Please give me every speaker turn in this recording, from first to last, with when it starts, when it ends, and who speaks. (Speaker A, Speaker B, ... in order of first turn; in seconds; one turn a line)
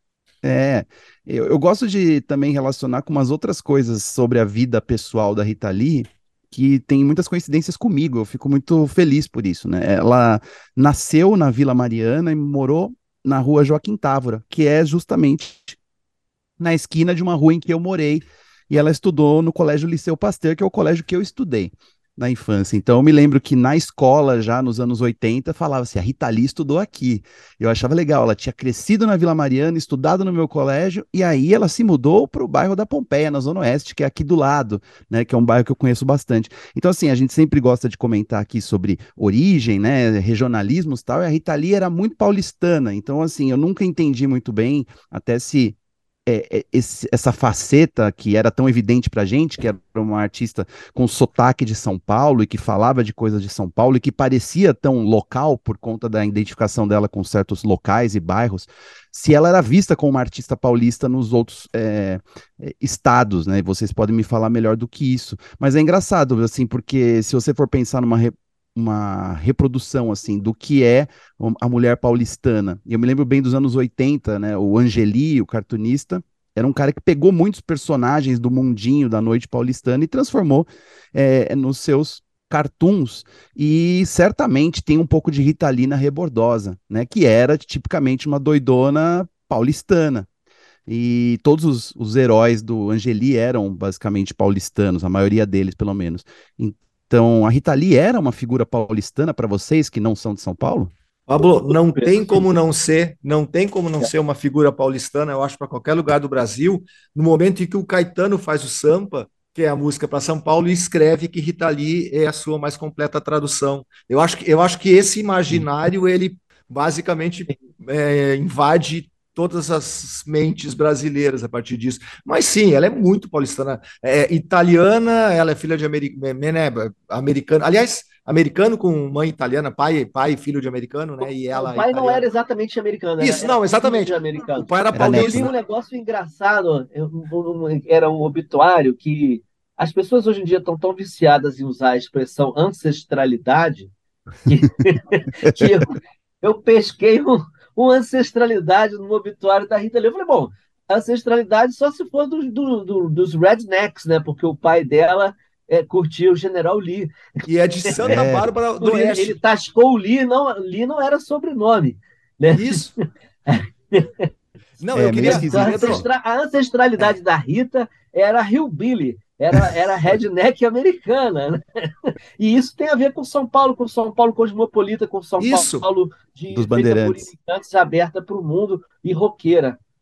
Speaker A: 0.4-15.8
Speaker A: 16.6-90.3
Speaker A: 90.9-100.9
Speaker B: 101.3-132.3
Speaker C: 131.5-143.9
Speaker B: 133.2-135.5
Speaker A: 134.9-135.5
Speaker C: 144.5-157.1
Speaker A: 145.4-145.7
Speaker B: 157.5-159.4
Speaker A: 158.0-158.5
Speaker C: 158.8-162.9
Speaker B: 162.5-162.9
Speaker C: 163.5-164.3
Speaker B: 164.8-166.1
Speaker A: 164.9-166.1
Speaker C: 165.2-179.8
Speaker B: 175.4-175.9
Speaker A: 176.5-177.3